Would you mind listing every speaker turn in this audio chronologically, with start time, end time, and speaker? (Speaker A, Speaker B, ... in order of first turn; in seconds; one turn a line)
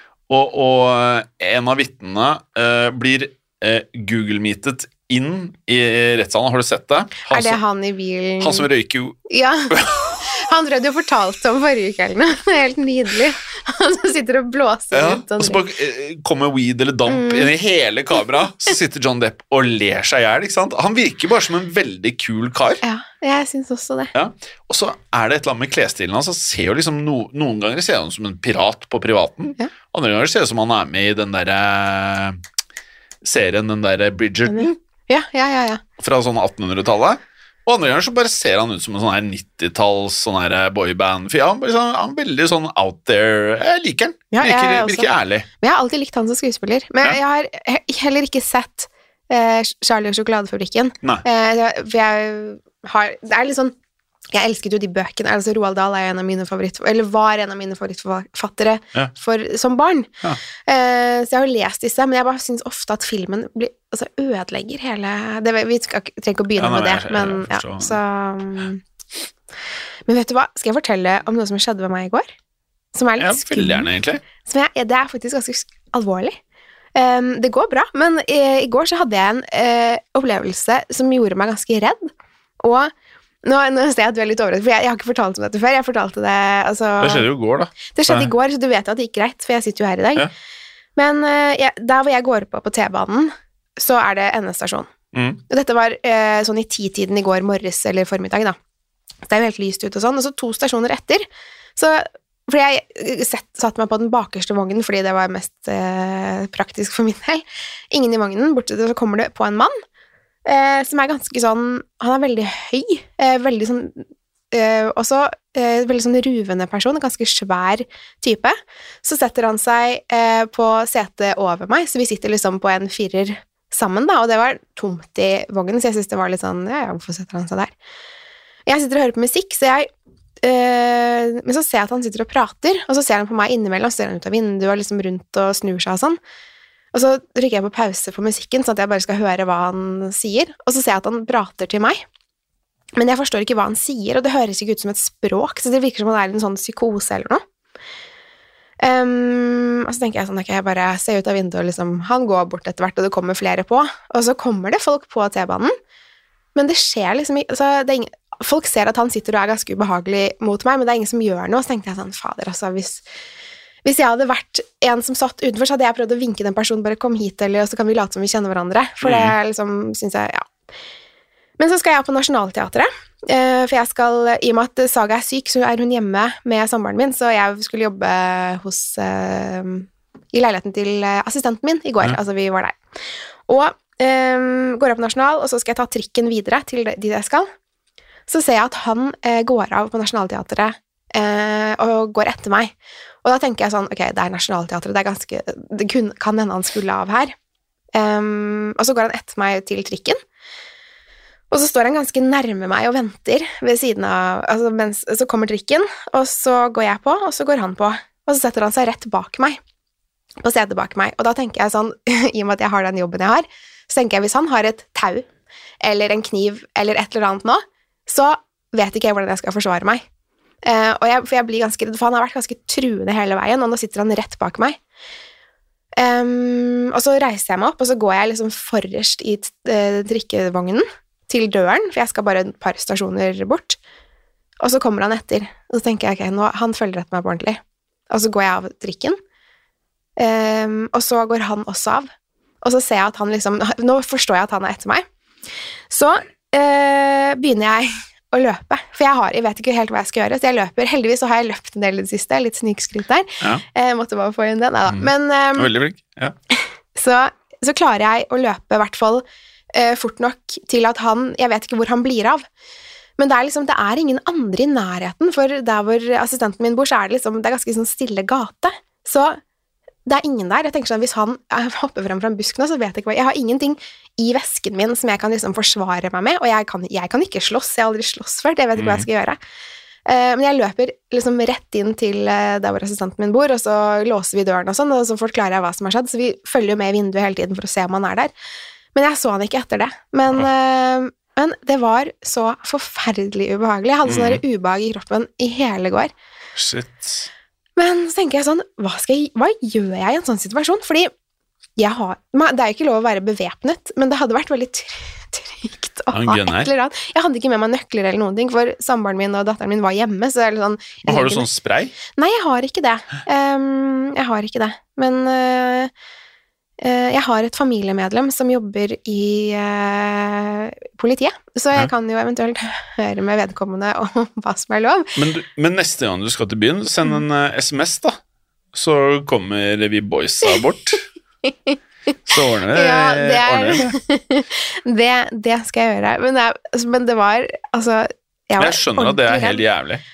Speaker A: 0.3-7.6
Speaker B: 7.2-8.7
Speaker A: 8.4-10.2
Speaker B: 9.3-15.6
Speaker A: 14.9-22.8
Speaker B: 17.1-17.5
Speaker B: 22.8-24.1
Speaker A: 24.1-32.4
Speaker A: 33.2-34.7
Speaker B: 34.5-35.8
Speaker A: 36.0-45.5
Speaker B: 44.3-53.7
Speaker B: 54.3-60.1
Speaker B: 60.6-68.8
Speaker A: 66.6-68.0
Speaker B: 70.1-72.3
Speaker B: 72.9-76.4
Speaker A: 73.2-74.2
Speaker B: 76.9-82.9
Speaker B: 83.4-87.3
Speaker A: 87.0-88.3
Speaker B: 87.9-90.3
Speaker B: 91.0-94.9
Speaker A: 95.1-95.4
Speaker B: 95.5-98.6
Speaker B: 99.3-101.2
Speaker B: 101.8-109.8
Speaker B: 110.4-127.7
Speaker B: 128.7-129.9
Speaker B: 130.4-136.2
Speaker B: 136.9-142.0
Speaker B: 142.9-147.4
Speaker B: 148.8-155.7
Speaker B: 156.5-163.0
Speaker B: 163.8-170.5
Speaker A: 169.0-169.3
Speaker B: 171.6-182.8
Speaker B: 183.5-187.5
Speaker B: 188.3-192.7
Speaker B: 193.2-197.3
Speaker B: 197.9-200.2
Speaker B: 201.5-209.6
Speaker B: 210.4-215.2
Speaker B: 215.8-220.0
Speaker B: 220.6-224.8
Speaker B: 226.0-233.8
Speaker B: 234.6-239.2
Speaker B: 240.2-242.1
Speaker B: 242.6-245.0
Speaker B: 245.9-255.7
Speaker A: 254.9-256.3
Speaker B: 256.5-262.4
Speaker B: 263.2-269.4
Speaker B: 270.1-279.4
Speaker A: 278.8-279.1
Speaker B: 280.1-288.3
Speaker B: 288.9-296.1
Speaker A: 294.1-294.4
Speaker A: 296.6-297.3
Speaker B: 297.8-301.1
Speaker B: 301.8-311.5
Speaker A: 306.1-306.7
Speaker A: 311.0-311.9
Speaker B: 312.1-315.9
Speaker B: 316.8-325.2
Speaker A: 325.1-328.2
Speaker A: 328.7-331.0
Speaker B: 331.4-331.8
Speaker A: 332.3-333.9
Speaker B: 332.7-339.6
Speaker A: 338.6-340.0